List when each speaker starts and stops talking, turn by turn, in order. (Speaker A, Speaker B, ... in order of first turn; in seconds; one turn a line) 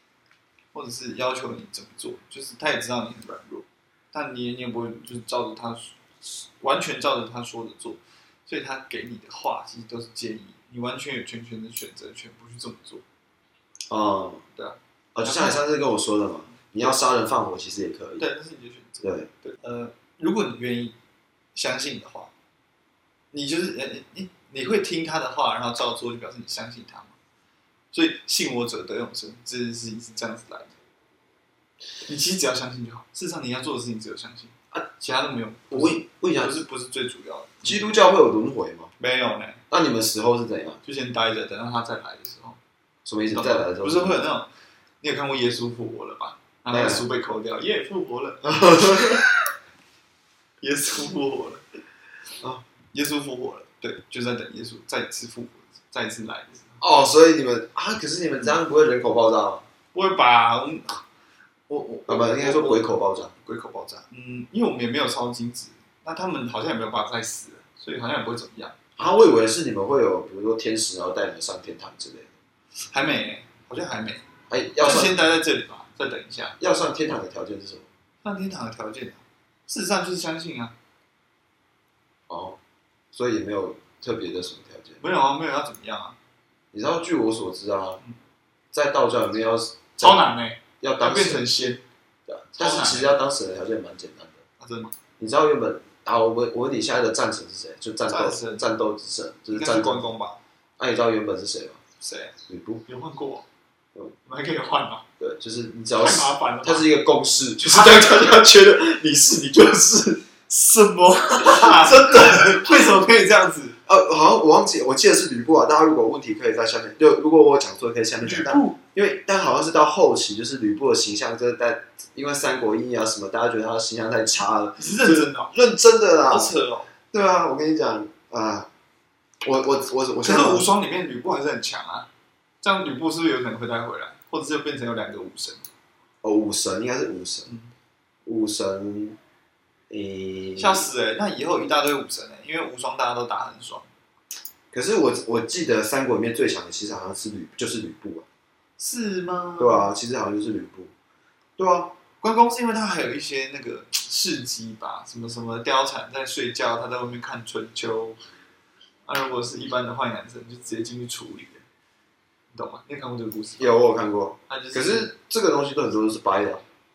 Speaker A: 0.7-13.0
Speaker B: 13.9-14.4
Speaker A: 14.6-15.6
Speaker B: 15.1-18.2
Speaker A: 18.2-20.9
Speaker B: 19.0-19.3
Speaker A: 21.5-22.3
Speaker A: 23.3-27.1
Speaker A: 27.9-30.7
Speaker A: 32.0-37.9
Speaker B: 35.7-36.6
Speaker B: 37.6-38.9
Speaker A: 39.0-39.6
Speaker B: 39.7-40.8
Speaker A: 40.8-42.6
Speaker B: 43.0-44.2
Speaker A: 43.3-44.5
Speaker A: 45.0-49.2
Speaker B: 46.7-47.0
Speaker B: 48.4-49.3
Speaker A: 50.6-51.6
Speaker A: 52.9-56.8
Speaker B: 56.8-59.6
Speaker A: 59.9-61.0
Speaker A: 61.7-62.9
Speaker B: 62.1-63.3
Speaker A: 63.4-68.7
Speaker B: 69.0-72.3
Speaker A: 72.8-74.2
Speaker B: 74.5-75.1
Speaker A: 74.8-76.6
Speaker B: 76.6-77.9
Speaker A: 78.2-80.7
Speaker B: 82.3-82.6
Speaker B: 83.1-85.0
Speaker A: 85.0-86.2
Speaker B: 86.7-88.0
Speaker B: 88.7-90.3
Speaker A: 90.0-91.8
Speaker B: 90.8-91.5
Speaker B: 92.3-94.4
Speaker A: 92.6-93.2
Speaker A: 94.6-94.9
Speaker B: 95.2-100.1
Speaker A: 98.1-98.7
Speaker A: 99.5-100.4
Speaker B: 100.8-101.8
Speaker A: 102.0-102.3
Speaker B: 102.5-102.8
Speaker A: 102.8-103.5
Speaker A: 104.2-105.0
Speaker B: 105.2-113.0
Speaker A: 106.0-106.9
Speaker A: 107.7-108.1
Speaker A: 110.7-113.8
Speaker B: 113.8-126.5
Speaker A: 118.2-118.8
Speaker A: 124.8-125.5
Speaker A: 126.3-126.9
Speaker B: 127.1-128.7
Speaker B: 129.4-130.7
Speaker A: 130.2-132.1
Speaker A: 132.6-135.6
Speaker B: 136.2-137.5
Speaker B: 138.2-139.2
Speaker B: 139.9-140.9
Speaker A: 140.6-143.9
Speaker B: 144.7-148.2
Speaker A: 148.8-149.9
Speaker B: 149.6-150.9
Speaker B: 151.6-151.9
Speaker A: 152.2-158.2
Speaker A: 159.1-161.6
Speaker A: 162.5-163.7
Speaker B: 163.6-166.6
Speaker A: 164.5-165.1